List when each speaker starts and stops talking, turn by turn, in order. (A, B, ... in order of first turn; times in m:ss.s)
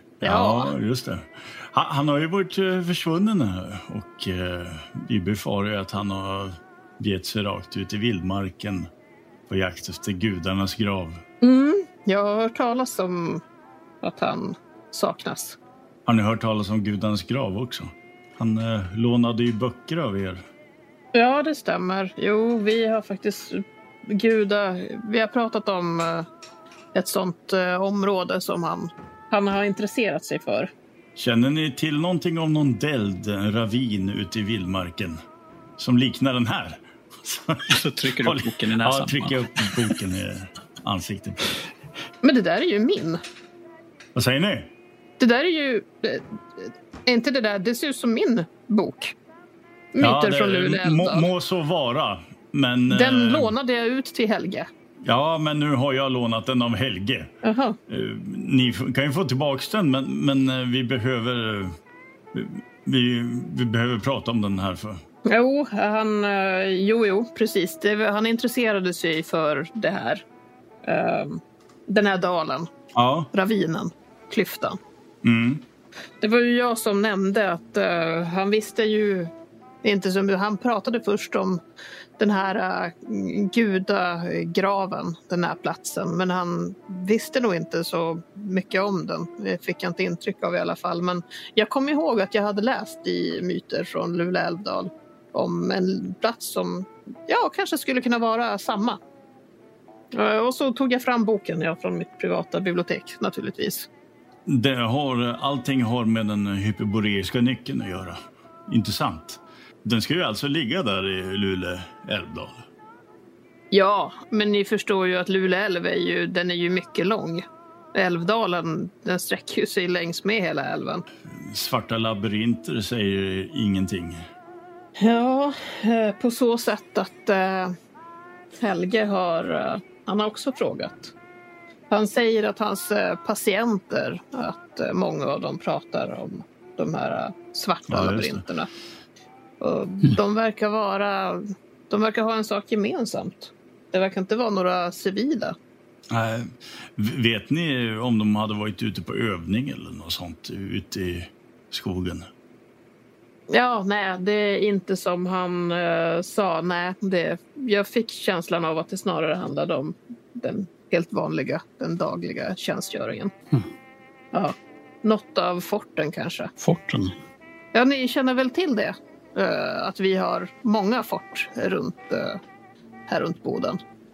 0:00.2-0:08.9 A
0:00.2-0:00.7 B
0:09.5-0:11.2 A
0:11.4-0:13.4 B
0:14.0-0:15.6 B
0:16.1-0:20.4 A
0:21.1-0:26.2 B
0:26.9-0:30.7 B
0:31.2-0:35.2 A
0:35.8-0:41.5 A
0:37.7-0:39.7 C
0:42.2-0:43.2 B
0:44.1-0:44.7 A
0:45.2-0:49.1 B
0:49.9-0:51.3 B
0:50.0-0:53.5 A
0:52.9-0:54.7 B
0:55.0-0:57.3 A
0:57.4-0:57.8 B
0:57.9-1:01.7 A
1:02.3-1:05.0 A
1:05.2-1:10.2 B
1:10.8-1:12.7 B
1:12.9-1:13.3 A
1:13.3-1:14.8 B
1:15.2-1:15.6 A
1:16.2-1:19.3 B
1:19.8-1:21.6 B
1:22.2-1:39.0 B
1:40.1-1:43.9 B
1:44.5-1:52.6 A
1:53.7-2:01.0 B
2:01.3-2:04.2 A
2:05.0-2:07.8 B
2:08.6-2:11.1 B
2:11.9-2:18.7 B
2:17.9-2:18.4 A
2:19.6-2:25.6 B
2:26.1-2:32.3 A
2:33.5-2:43.3 B
2:44.3-2:46.5 B
2:46.6-2:47.1 C
2:47.7-2:52.4 B
2:53.1-2:53.8 B